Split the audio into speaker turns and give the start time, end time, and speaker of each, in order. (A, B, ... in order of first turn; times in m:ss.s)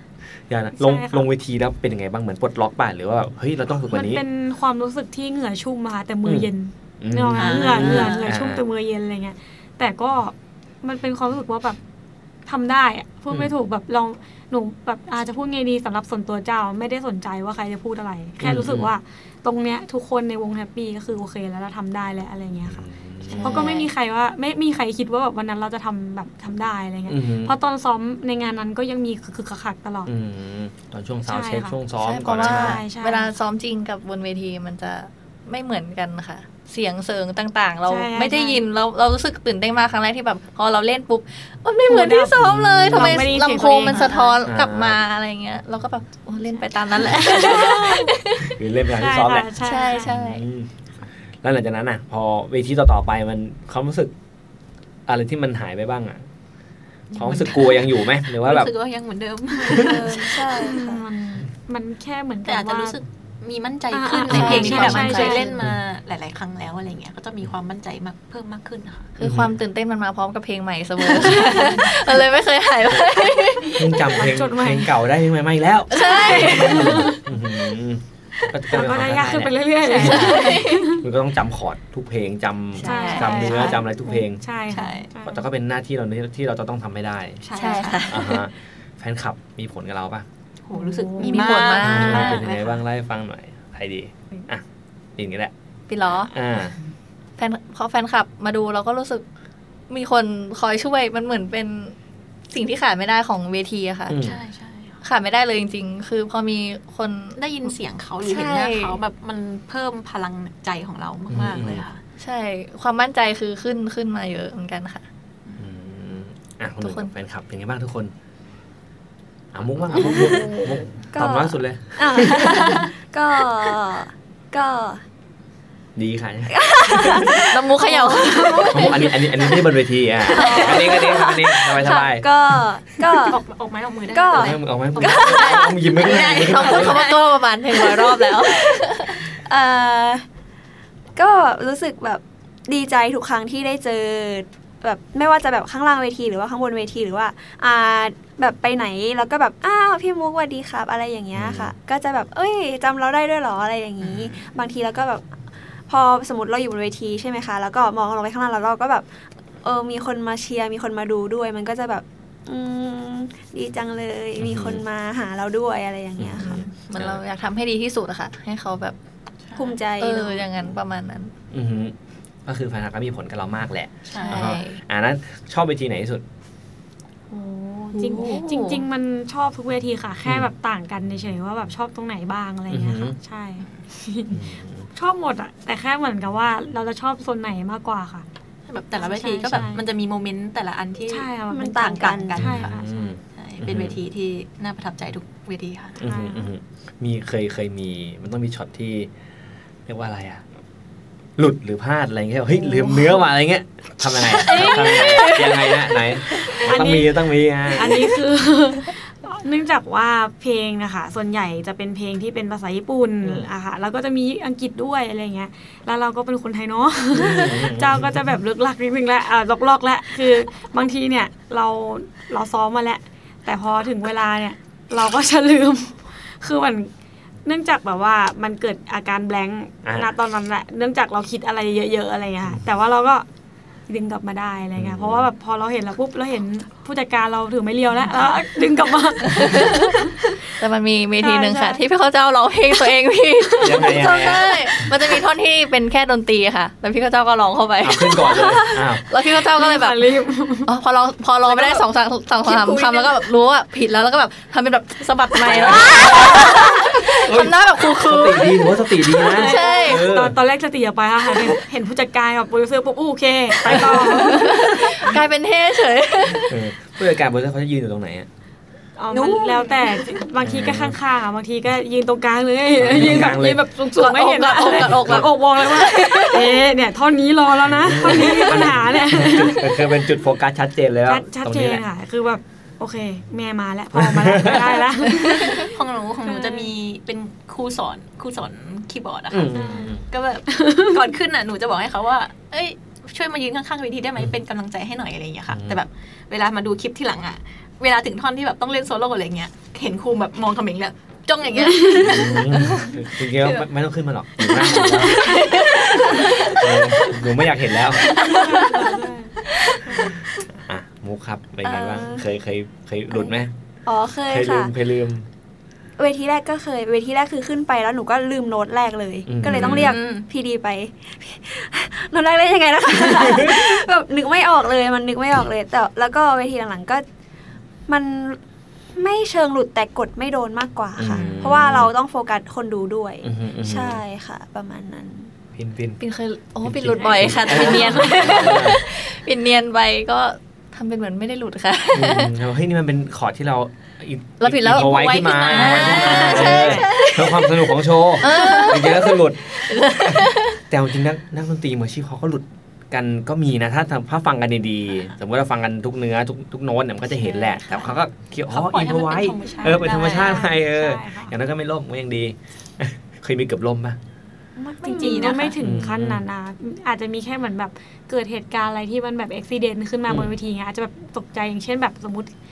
0:00.5-0:04.2 A
0:00.8-0:01.3 B
0:03.8-0:11.8 B
0:06.2-0:06.5 A
0:07.0-0:08.6 A
0:07.4-0:08.3 C
0:12.4-0:30.1 B
0:18.4-0:18.9 A
0:22.7-0:23.7 A
0:23.3-0:23.9 D
0:27.1-0:27.6 A
0:30.0-0:32.8 A
0:31.3-0:31.8 B
0:32.0-0:48.5 D
0:32.3-0:33.3 B
0:37.9-0:38.6 B
0:41.9-0:44.2 B
0:42.4-0:43.2 A
0:43.9-0:44.3 C
0:44.4-0:45.0 A
0:47.0-0:48.1 B
0:47.1-0:47.5 A
0:48.4-0:50.7 A
0:48.9-0:50.1 B
0:49.6-0:50.4 D
0:51.4-0:54.1 A
0:55.0-0:56.2 A
0:57.1-1:00.5 C
0:57.2-0:58.7 A
0:59.6-1:01.0 E
0:59.7-1:00.0 A
1:00.4-1:03.0 B
1:02.4-1:09.1 C
1:03.9-1:05.6 B
1:04.3-1:05.5 D
1:04.3-1:05.7 A
1:09.2-1:13.9 D
1:09.2-1:09.5 A
1:11.1-1:11.9 C
1:12.9-1:13.2 A
1:13.7-1:24.4 A
1:14.0-1:14.9 B
1:15.9-1:17.1 D
1:15.9-1:17.2 B
1:18.7-1:21.0 B
1:19.8-1:21.0 D
1:22.8-1:23.7 D
1:22.8-1:25.4 B
1:23.3-1:23.6 C
1:24.7-1:25.1 C
1:25.2-1:27.4 A
1:27.4-1:28.4 C
1:27.5-1:28.4 D
1:28.0-1:30.2 A
1:30.6-1:32.8 C
1:30.7-1:31.5 B
1:31.2-1:32.4 D
1:31.8-1:34.6 A
1:35.2-1:35.5 A
1:35.9-1:36.3 D
1:36.2-1:36.7 A
1:37.4-1:39.2 D
1:39.9-1:42.0 D
1:42.5-1:44.2 D
1:44.1-1:44.4 A
1:44.2-1:45.0 C
1:45.0-1:47.4 D
1:47.3-1:52.0 C
1:48.2-1:49.0 D
1:51.3-1:51.8 A
1:52.2-1:55.0 D
1:55.6-1:58.1 A
1:56.8-1:57.1 D
1:59.5-2:02.8 A
2:00.0-2:00.5 E
2:00.0-2:00.7 D
2:01.1-2:05.0 E
2:02.5-2:02.9 C
2:06.0-2:07.4 A
2:06.5-2:09.0 E
2:07.3-2:09.5 D
2:08.7-2:12.6 A
2:10.3-2:13.4 E
2:10.3-2:11.0 D
2:13.1-2:18.8 C
2:14.1-2:15.5 E
2:14.3-2:17.0 A
2:15.0-2:19.2 D
2:19.4-2:20.2 E
2:21.2-2:35.2 E
2:31.3-2:31.7 A
2:34.0-2:34.3 A
2:35.9-2:39.0 E
2:39.6-2:46.6 E
2:44.4-2:44.8 A
2:46.2-2:47.2 A
2:46.4-2:49.0 D
2:49.5-2:49.8 C
2:49.6-2:50.7 E
2:50.0-2:51.3 D
2:51.5-2:56.2 A
2:54.1-2:54.5 C
2:54.2-2:54.8 D
2:57.3-3:08.2 B
2:58.0-2:58.8 D
3:02.7-3:03.2 A
3:04.3-3:04.8 A
3:08.7-3:12.7 C
3:08.9-3:09.8 B
3:11.1-3:13.2 B
3:11.5-3:12.4 E
3:12.4-3:14.0 A
3:13.3-3:16.0 C
3:16.0-3:19.1 A
3:16.0-3:16.5 B
3:19.8-3:20.4 A
3:21.4-3:28.2 A
3:22.7-3:23.1 B
3:24.1-3:26.6 D
3:26.6-3:46.9 B
3:37.1-3:38.2 A
3:47.4-3:53.2 B
3:49.8-3:50.1 A
3:53.9-4:00.2 B
3:54.7-3:55.3 A
3:59.3-4:10.0 D
4:01.2-4:01.7 B
4:03.6-4:04.5 A
4:07.8-4:09.0 A
4:09.3-4:10.7 B
4:10.6-4:20.1 D
4:12.5-4:13.1 C
4:15.4-4:20.4 A
4:19.3-4:24.6 B
4:23.6-4:24.1 A
4:23.6-4:26.6 D
4:26.4-4:28.3 A
4:29.0-4:40.0 B
4:29.1-4:29.8 C
4:29.2-4:29.7 D
4:30.4-4:31.0 A
4:32.8-4:33.6 A
4:34.0-4:36.6 D
4:34.8-4:35.3 A
4:37.7-4:41.8 A
4:41.0-4:46.7 B
4:43.9-4:44.8 A
4:45.2-5:03.6 C
4:49.3-4:50.0 A
4:49.5-4:51.1 B
4:55.5-4:55.8 A
5:01.6-5:02.8 B
5:02.0-5:05.5 A
5:04.6-5:05.3 B
5:04.9-5:07.1 C
5:05.3-5:06.6 D
5:06.5-5:08.2 A
5:08.1-5:10.1 B
5:08.1-5:08.8 C
5:08.2-5:08.7 D
5:09.9-5:10.2 C
5:10.5-5:13.5 A
5:11.6-5:12.2 E
5:13.8-5:14.7 E
5:14.3-5:15.2 A
5:16.0-5:27.0 E
5:19.3-5:20.0 A
5:19.4-5:20.3 C
5:23.0-5:23.8 A
5:27.9-5:28.4 E
5:28.9-5:35.3 E
5:31.0-5:31.9 A
5:33.2-5:34.0 A
5:35.6-5:36.0 A
5:36.0-5:42.3 D
5:36.6-5:38.8 A
5:36.9-5:38.3 B
5:41.9-6:04.0 A
5:44.4-5:50.6 D
5:44.7-5:47.0 C
5:57.2-5:57.8 D
5:58.5-6:00.5 C
5:59.7-6:01.3 B
6:04.6-6:05.5 E
6:04.8-6:05.6 C
6:04.8-6:12.3 B
6:05.6-6:06.2 A
6:10.1-6:10.3 A